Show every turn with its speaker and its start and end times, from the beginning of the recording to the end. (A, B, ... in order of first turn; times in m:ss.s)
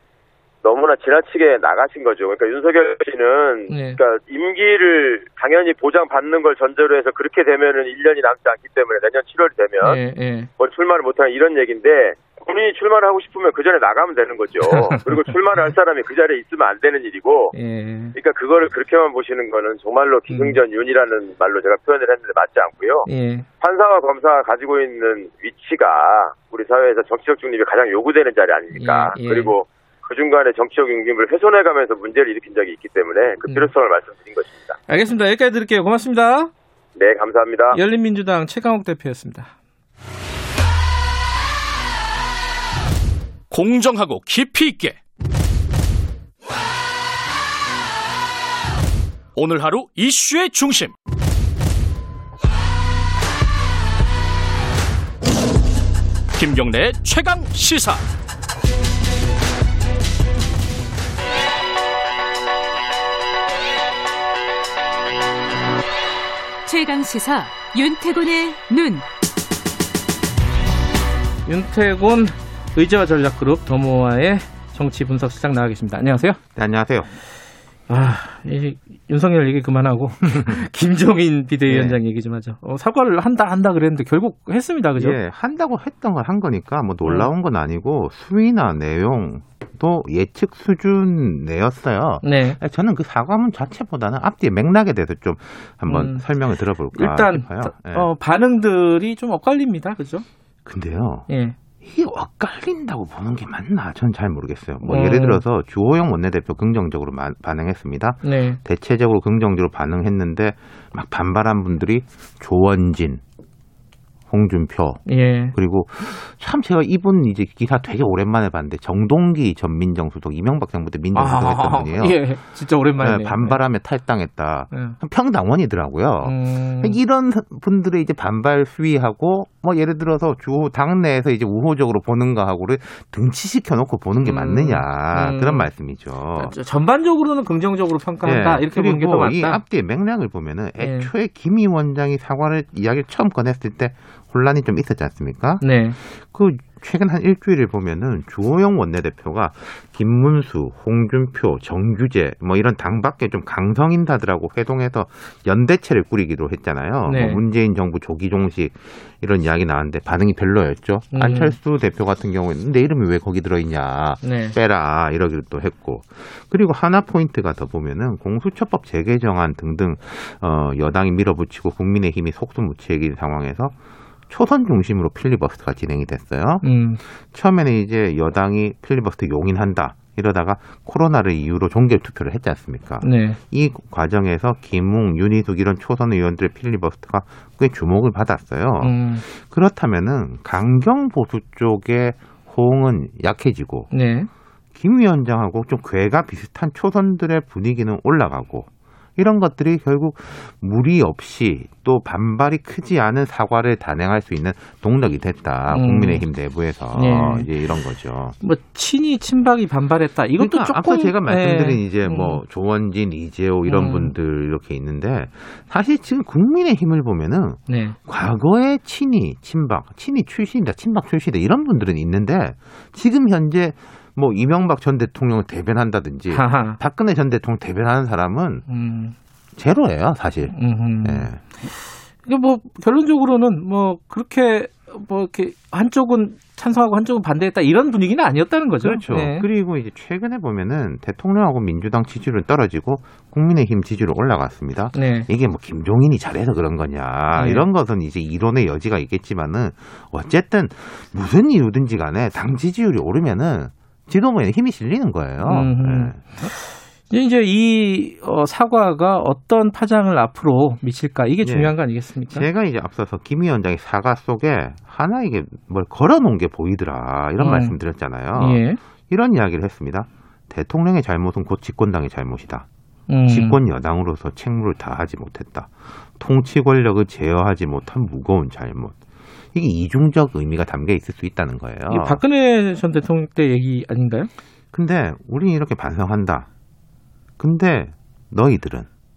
0:00.6-0:10.0 A
0:03.7-0:04.0 B
0:09.8-0:10.5 B
0:10.6-0:17.5 A
0:14.7-0:15.7 B
0:17.5-0:18.2 B
0:18.2-0:23.1 A
0:20.3-0:20.6 B
0:23.1-0:23.5 B
0:23.6-0:34.8 A
0:28.8-0:29.5 B
0:33.4-0:33.7 B
0:34.9-0:36.5 B
0:37.0-0:37.8 A
0:37.7-0:39.5 B
0:43.5-0:45.0 C
0:49.4-0:50.9 C
0:56.3-0:58.1 C
1:06.6-1:09.1 D
1:11.5-1:16.4 B
1:16.6-1:17.1 E
1:17.9-1:25.2 B
1:21.7-1:22.0 E
1:25.0-1:38.1 E
1:27.0-1:27.3 B
1:32.2-1:32.6 B
1:35.9-1:36.3 B
1:36.9-1:40.3 B
1:40.7-1:41.3 E
1:41.3-1:41.6 B
1:41.8-1:53.2 E
1:44.8-1:45.4 B
1:48.2-1:48.6 B
1:54.3-2:02.5 E
1:55.1-1:55.6 B
2:01.2-2:03.6 B
2:03.0-2:16.6 E
2:04.7-2:05.0 B
2:06.2-2:07.0 B
2:14.2-2:15.7 B
2:16.4-2:19.6 B
2:18.2-2:53.7 E
2:20.8-2:21.1 B
2:25.6-2:26.0 B
2:37.1-2:37.4 B
2:41.1-2:41.6 B
2:44.2-2:44.6 B
2:54.3-3:13.9 E
2:56.6-2:57.0 B
3:03.0-3:03.4 B
3:08.8-3:09.2 B
3:13.9-3:14.3 B
3:14.8-3:28.4 E
3:25.7-3:26.3 B
3:26.9-3:27.5 B
3:28.4-3:32.4 B
3:30.4-3:48.6 E
3:33.7-3:34.1 B
3:37.7-3:38.0 B
3:46.3-3:46.8 B
3:48.7-3:49.2 B
3:49.6-3:51.4 E
3:50.5-3:59.5 B
3:58.8-4:16.2 E
4:04.9-4:05.3 B
4:07.4-4:07.7 B
4:15.4-4:22.5 B
4:21.4-4:32.7 E
4:27.4-4:27.8 B
4:28.4-4:28.8 B
4:33.1-4:33.6 B
4:33.3-4:39.0 E
4:39.5-4:42.2 E
4:41.9-4:44.3 B
4:44.7-4:46.5 E
4:47.4-4:48.9 E